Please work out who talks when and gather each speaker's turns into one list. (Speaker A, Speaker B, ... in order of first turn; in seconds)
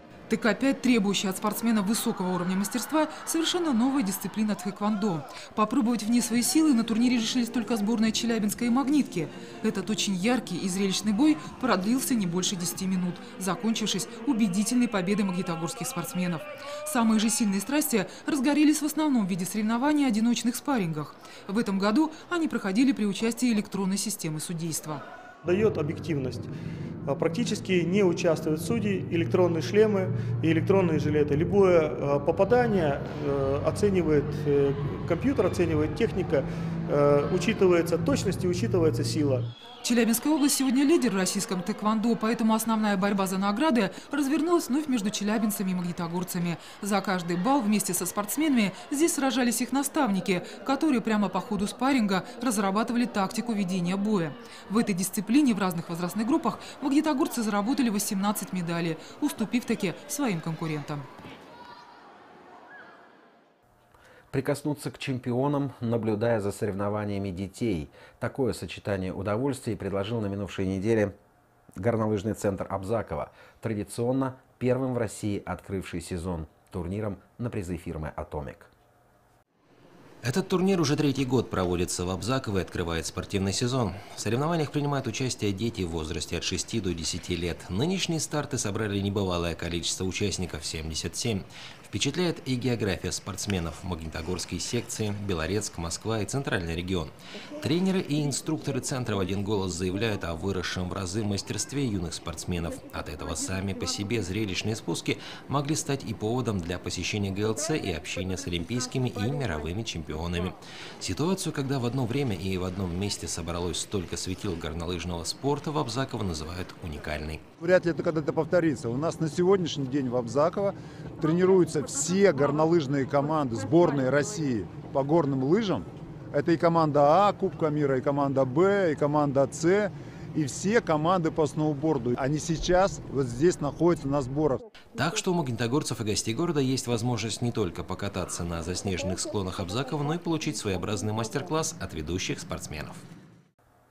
Speaker A: 0.3-25.0, 39.8-61.1
Speaker B: 25.4-26.5, 27.1-39.5
Speaker C: 64.3-71.1, 71.8-78.7
Speaker D: 80.2-117.4, 134.9-143.0
Speaker E: 117.6-134.7